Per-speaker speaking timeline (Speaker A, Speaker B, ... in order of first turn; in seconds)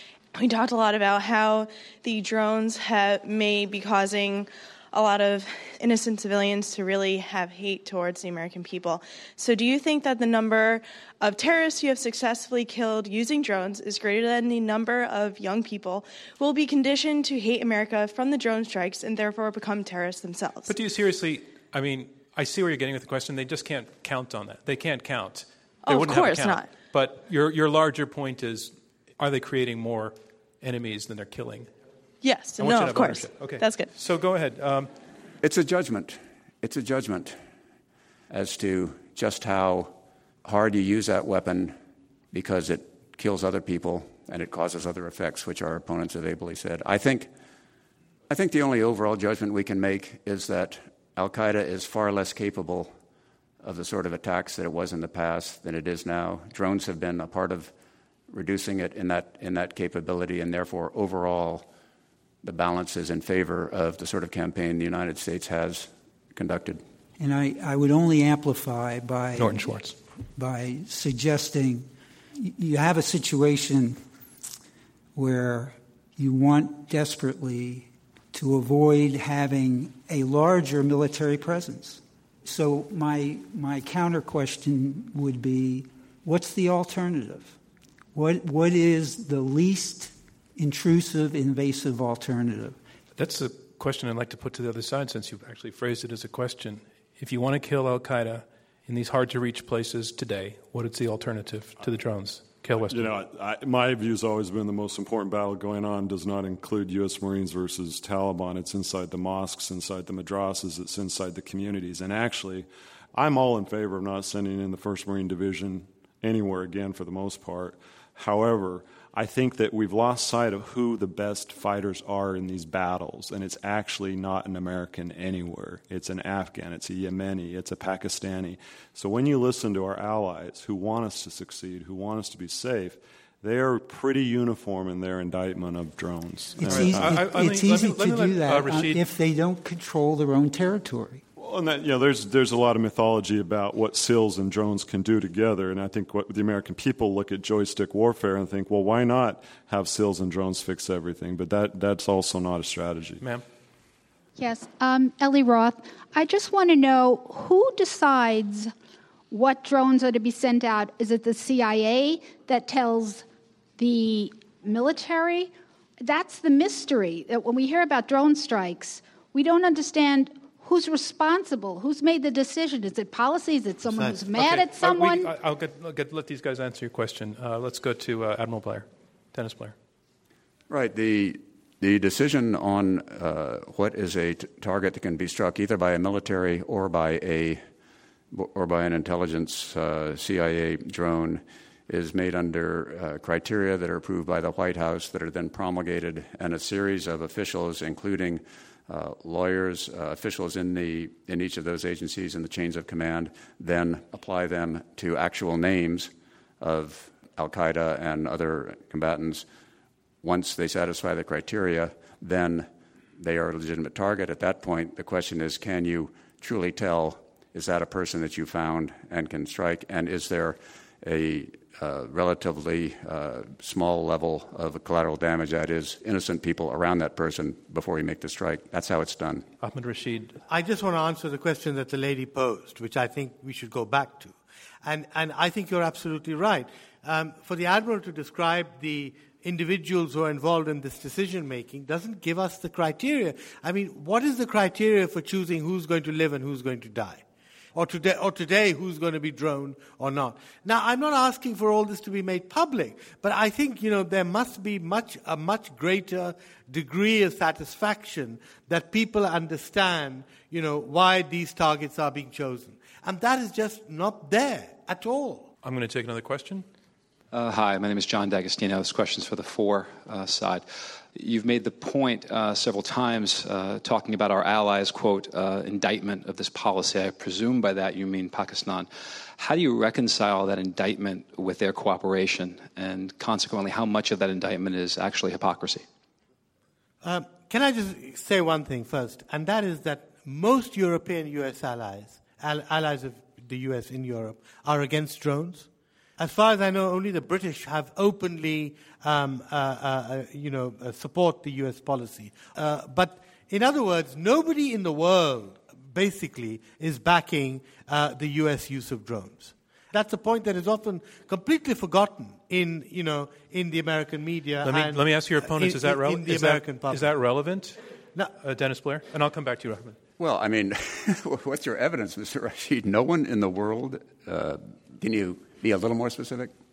Speaker A: 0.3-20.7, 25.9-26.7, 32.2-33.9
Speaker B: 20.7-31.7, 32.6-34.9, 69.4-70.0, 93.2-103.1, 136.7-139.0, 174.3-179.7, 229.6-230.4, 265.6-266.6, 314.6-317.8, 318.3-320.0
Speaker C: 35.4-37.4, 38.3-41.7, 42.3-47.3, 48.3-52.9, 53.6-57.7, 58.3-61.7, 62.4-66.8, 180.7-187.6, 188.3-209.4, 210.2-229.4, 320.2-326.5
Speaker D: 67.2-69.7, 70.3-74.0, 75.1-87.6, 88.1-92.8, 136.6-141.2
Speaker E: 102.8-137.2, 141.4-153.2
Speaker F: 154.4-158.7, 159.3-163.2, 163.8-165.5, 166.0-175.3
Speaker G: 230.5-247.2, 247.7-265.5, 287.0-295.7, 296.2-317.1
Speaker H: 267.3-285.9